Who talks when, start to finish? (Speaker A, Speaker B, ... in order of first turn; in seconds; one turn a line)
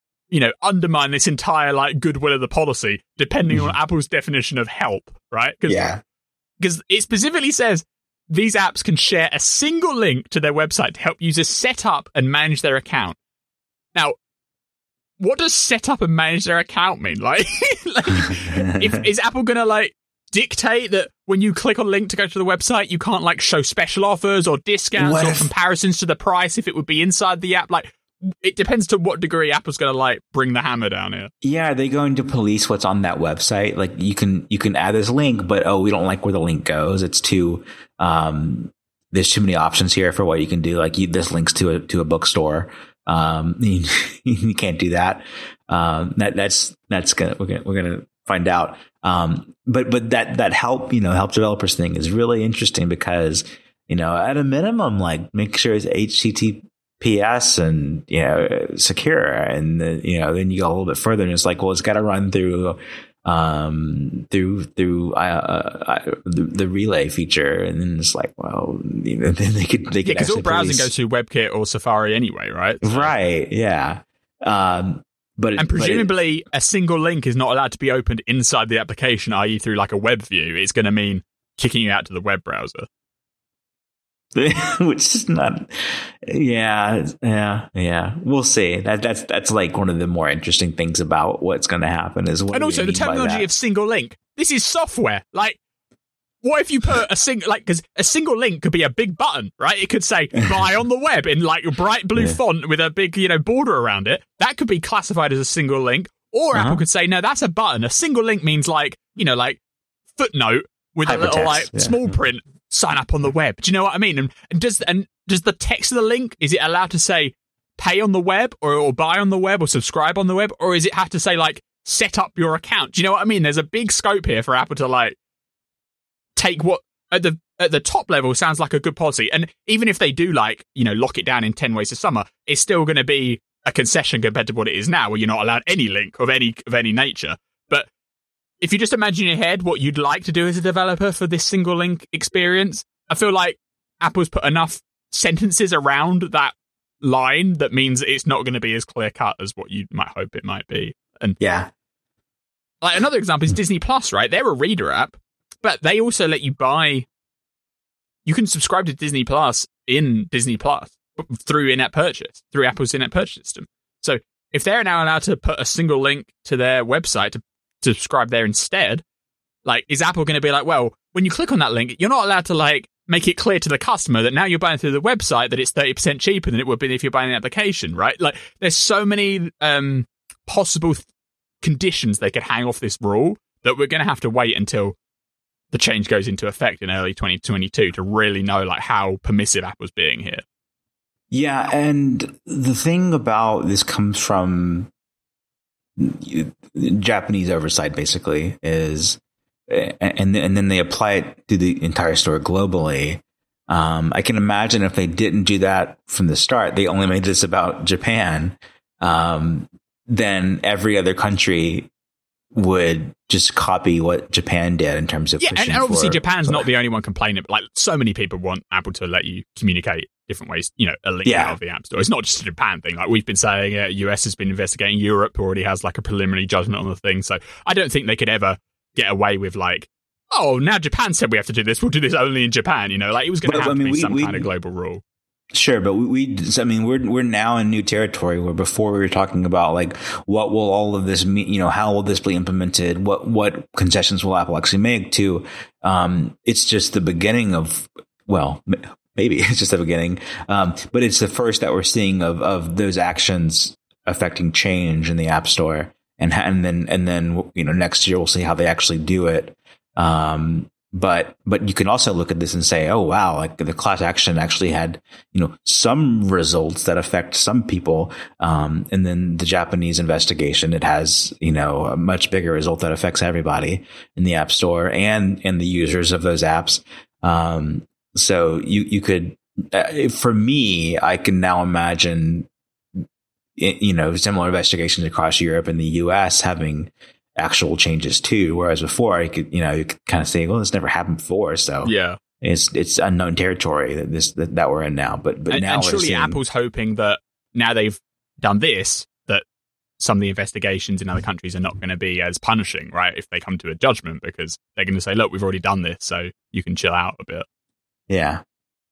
Speaker A: 0.3-5.9
Speaker B: 5.7-6.0
Speaker A: 6.6-13.2
Speaker A: 15.2-31.3
Speaker B: 18.2-19.1
Speaker B: 25.0-25.5
Speaker B: 31.4-70.9
Speaker A: 70.0-73.1
Speaker B: 72.8-76.1
Speaker A: 75.6-82.9
Speaker B: 84.3-93.5
Speaker A: 92.5-95.6
Speaker A: 96.4-109.6
Speaker B: 106.5-106.8
Speaker A: 110.2-125.2
Speaker B: 111.1-112.0
Speaker A: 126.4-137.9
Speaker A: 138.6-151.4
Speaker B: 151.4-151.7
Speaker A: 152.8-157.1
Speaker A: 158.3-169.0
Speaker A: 169.7-181.1
Speaker A: 181.6-184.9
Speaker A: 185.7-190.4
Speaker B: 191.3-194.9
Speaker B: 196.0-211.9
Speaker B: 212.5-216.6
Speaker A: 215.4-235.0
Speaker B: 221.2-221.6
Speaker B: 233.4-234.5
Speaker B: 235.5-282.5
Speaker B: 283.6-296.4
Speaker A: 291.8-292.2
Speaker A: 295.5-299.4
Speaker A: 300.0-307.5
Speaker B: 308.1-308.4